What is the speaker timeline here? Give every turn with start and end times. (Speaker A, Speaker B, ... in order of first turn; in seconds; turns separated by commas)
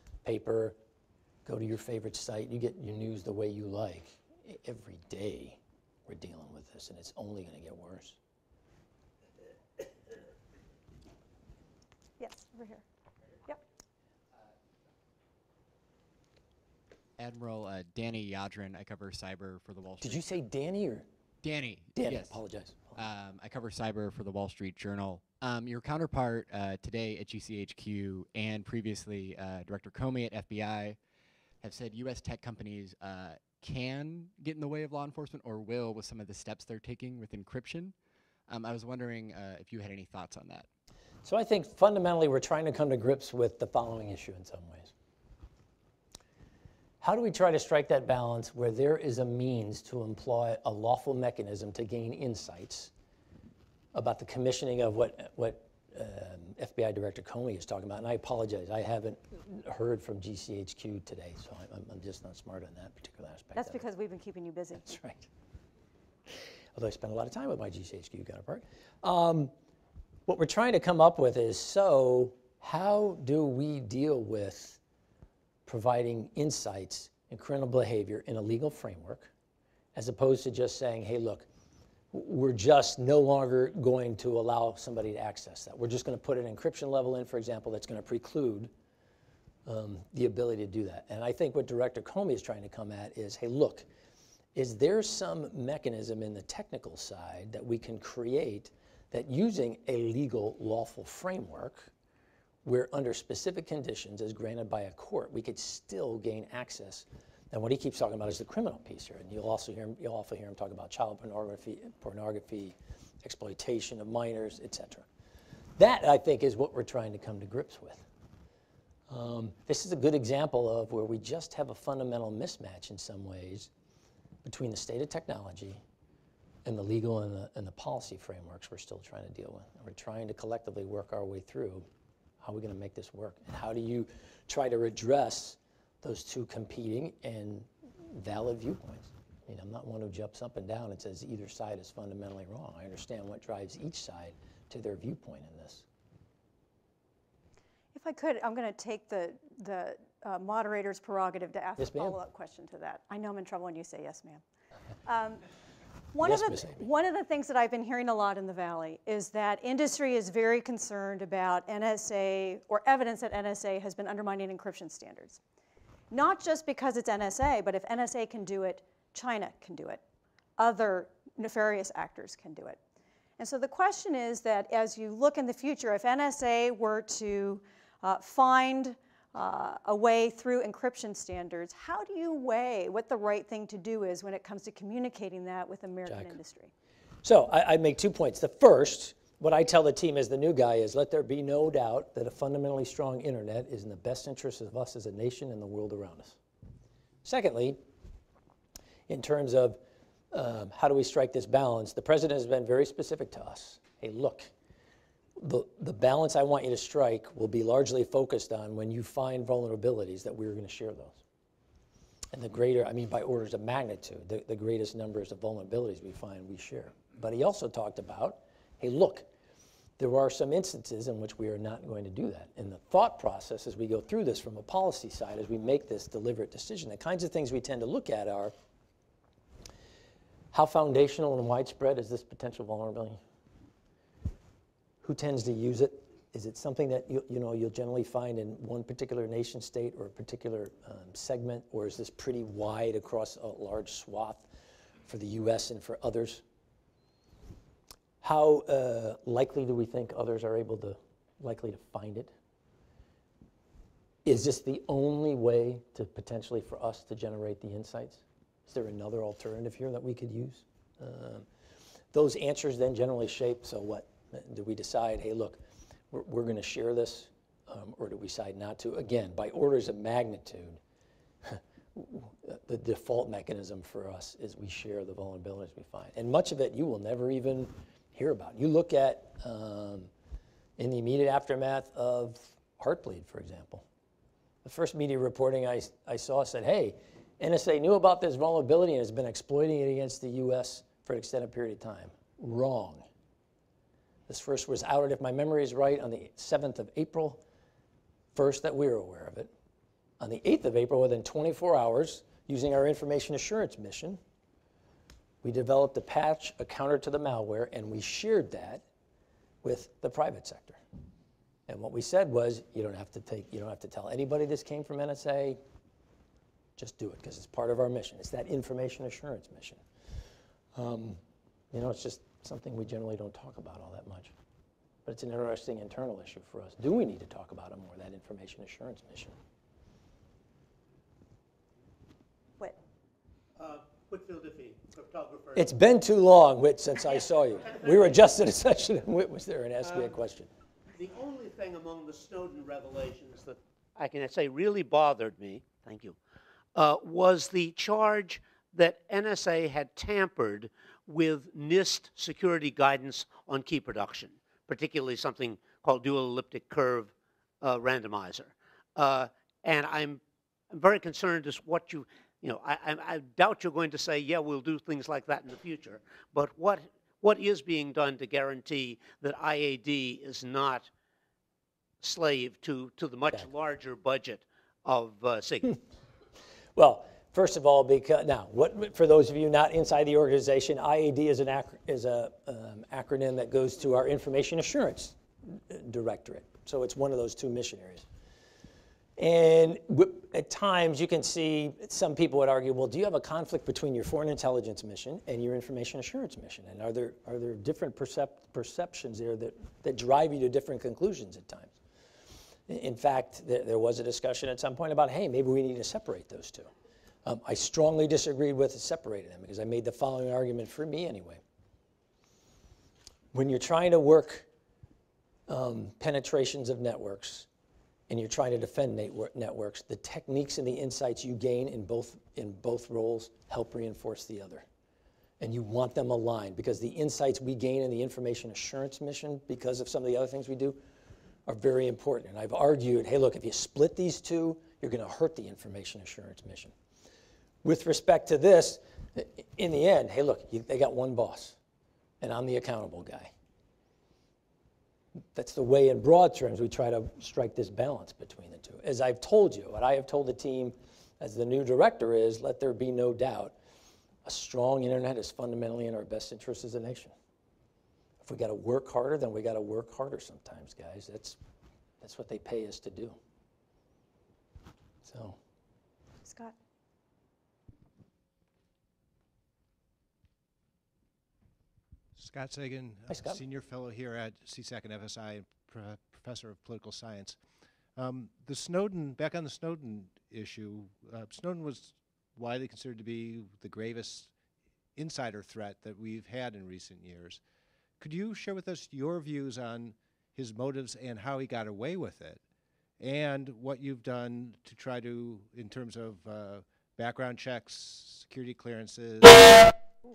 Speaker A: 0.2-0.8, Speaker A: 1.4-8.2, Speaker B: 12.2-12.8, Speaker C: 17.2-20.3, Speaker A: 20.0-21.1, Speaker C: 21.4-22.4, Speaker A: 21.9-23.0, Speaker C: 22.9-31.0, Speaker C: 31.6-38.0, Speaker C: 38.5-40.7, Speaker A: 41.2-44.9, Speaker A: 47.0-52.9, Speaker A: 53.9-63.9, Speaker B: 63.6-64.9, Speaker A: 64.8-65.3, Speaker A: 66.8-69.5, Speaker A: 70.3-74.8, Speaker A: 75.7-79.3, Speaker A: 80.0-81.5, Speaker A: 82.1-88.7, Speaker A: 89.7-93.9, Speaker A: 94.5-101.9, Speaker A: 102.6-115.1, Speaker A: 115.8-118.0, Speaker A: 119.1-123.7, Speaker A: 124.4-125.8, Speaker A: 126.7-131.9, Speaker A: 132.4-145.8, Speaker B: 147.9-154.4, Speaker A: 151.8-152.2, Speaker B: 155.1-155.4, Speaker B: 156.1-165.4, Speaker A: 156.2-156.9, Speaker B: 166.1-170.0, Speaker B: 170.6-172.8, Speaker B: 173.4-186.7, Speaker A: 186.1-186.4, Speaker A: 187.2-196.4, Speaker A: 197.2-197.8, Speaker A: 199.1-199.8, Speaker A: 200.3-204.5, Speaker A: 205.4-211.2, Speaker A: 212.3-219.3, Speaker A: 220.0-228.5, Speaker A: 230.5-233.2, Speaker A: 235.0-244.5, Speaker A: 245.1-246.4, Speaker A: 248.2-252.3, Speaker A: 254.2-261.5, Speaker A: 262.1-265.6, Speaker A: 266.1-270.8, Speaker A: 271.4-280.1, Speaker A: 280.8-283.9, Speaker A: 284.6-293.1, Speaker A: 294.3-297.4, Speaker A: 298.3-299.5, Speaker A: 300.2-304.2, Speaker A: 305.4-308.8, Speaker A: 309.6-310.8, Speaker A: 311.7-315.6, Speaker A: 316.8-319.8, Speaker A: 320.8-321.2, Speaker A: 321.7-324.3, Speaker A: 325.1-329.4, Speaker D: 333.6-335.7, Speaker A: 335.6-340.5, Speaker D: 337.7-338.0, Speaker D: 339.8-340.1, Speaker D: 341.0-346.2, Speaker D: 346.8-370.9, Speaker D: 372.0-375.8, Speaker A: 376.8-388.1, Speaker A: 389.2-401.8, Speaker A: 402.7-406.7, Speaker A: 407.2-411.4, Speaker A: 413.3-414.5, Speaker A: 415.5-417.5, Speaker A: 418.1-424.7, Speaker A: 425.4-430.8, Speaker A: 431.5-436.7, Speaker A: 437.6-441.6, Speaker A: 442.2-443.3, Speaker A: 445.3-453.6, Speaker A: 454.2-457.1, Speaker A: 458.2-461.4, Speaker A: 462.0-463.2, Speaker A: 465.0-465.4, Speaker B: 466.2-466.6, Speaker E: 472.2-484.3, Speaker A: 473.1-473.4, Speaker E: 484.9-487.4, Speaker E: 488.0-492.4, Speaker E: 493.0-499.7